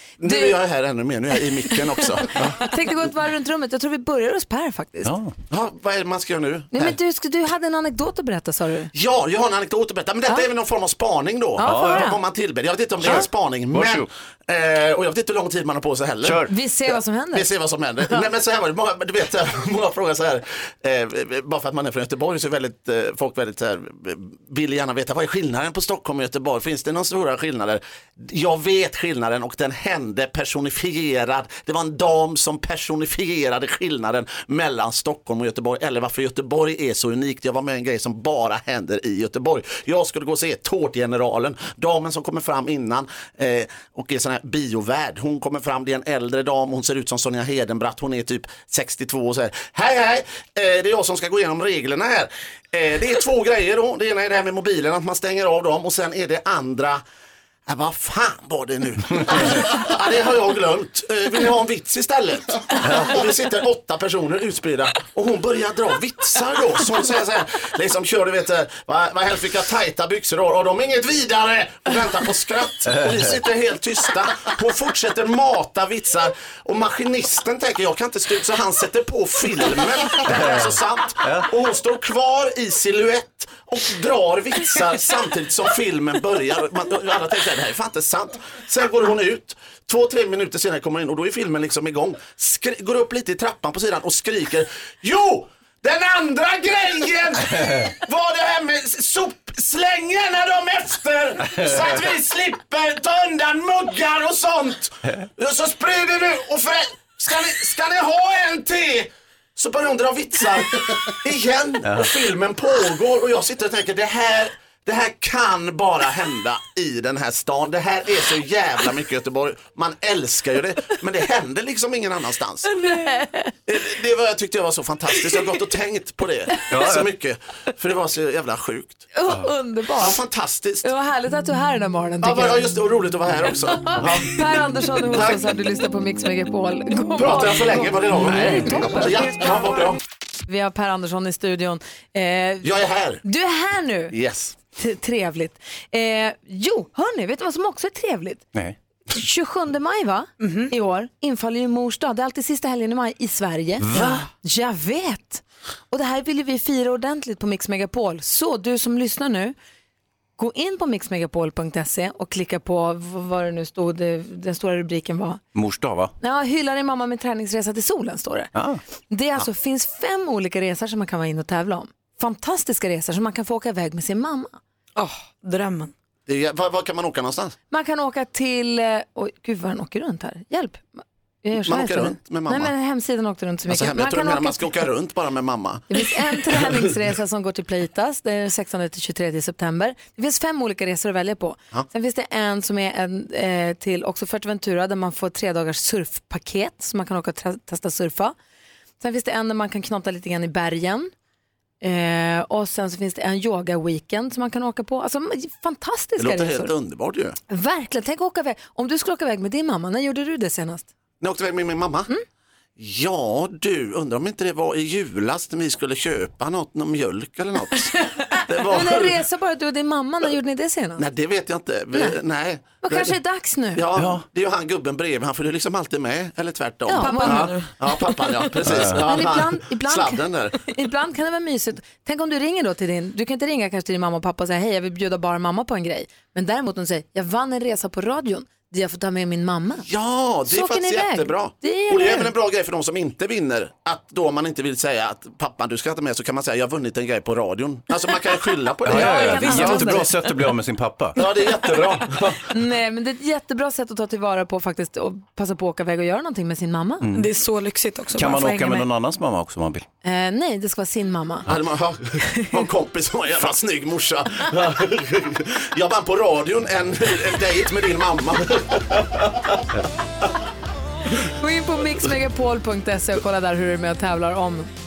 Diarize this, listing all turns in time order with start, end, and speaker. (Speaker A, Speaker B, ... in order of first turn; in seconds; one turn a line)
Speaker A: 0.2-2.4
Speaker B: 0.2-0.6
Speaker B: 2.6-5.1
Speaker C: 5.0-5.3
Speaker A: 5.5-6.9
Speaker B: 6.7-8.9
Speaker A: 8.9-16.4
Speaker B: 11.6-12.2
Speaker C: 11.6-12.1
Speaker C: 13.0-14.1
Speaker C: 16.2-16.5
Speaker B: 16.5-17.5
Speaker A: 17.3-57.0
Speaker A: 57.7-122.7
Speaker C: 62.8-63.1
Speaker C: 72.9-73.4
Speaker C: 80.2-81.5
Speaker C: 111.8-112.1
Speaker B: 122.8-123.4
Speaker A: 123.7-129.1
Speaker C: 126.7-127.1
Speaker B: 129.1-130.2
Speaker A: 130.0-130.9
Speaker B: 130.8-132.6
Speaker A: 132.2-134.4
Speaker B: 133.7-139.3
Speaker A: 135.0-135.4
Speaker A: 137.1-140.0
Speaker C: 138.4-138.7
Speaker B: 140.5-142.7
Speaker A: 142.6-143.2
Speaker B: 143.2-144.1
Speaker A: 144.1-144.6
Speaker B: 144.8-148.4
Speaker B: 149.1-159.6
Speaker D: 150.4-150.7
Speaker C: 153.8-154.3
Speaker B: 160.4-165.4
Speaker C: 165.6-166.1
Speaker B: 166.2-168.5
Speaker C: 168.6-168.8
Speaker B: 169.1-174.6
Speaker D: 174.9-175.9
Speaker A: 176.3-177.6
Speaker B: 177.7-184.7
Speaker A: 181.6-182.7
Speaker A: 183.7-186.8
Speaker B: 185.9-198.3
Speaker B: 199.0-201.1
Speaker B: 201.8-206.7
Speaker A: 206.2-207.4
Speaker B: 207.5-210.9
Speaker A: 211.2-212.1
Speaker A: 212.8-217.9
Speaker B: 218.3-221.1
Speaker A: 218.4-219.2
Speaker A: 221.0-223.2
Speaker B: 222.8-223.8
Speaker A: 223.7-230.6
Speaker C: 223.9-224.2
Speaker B: 226.9-227.5
Speaker D: 226.9-228.6
Speaker C: 228.6-229.1
Speaker B: 228.9-239.9
Speaker A: 239.8-249.6
Speaker B: 240.5-242.3
Speaker C: 248.8-251.2
Speaker B: 248.9-250.1
Speaker D: 249.0-250.1
Speaker A: 251.2-252.4
Speaker B: 252.5-257.1
Speaker C: 257.0-257.3
Speaker D: 257.1-258.9
Speaker C: 258.1-259.8
Speaker B: 260.0-261.5
Speaker A: 261.4-269.3
Speaker B: 262.3-262.6
Speaker B: 271.2-274.7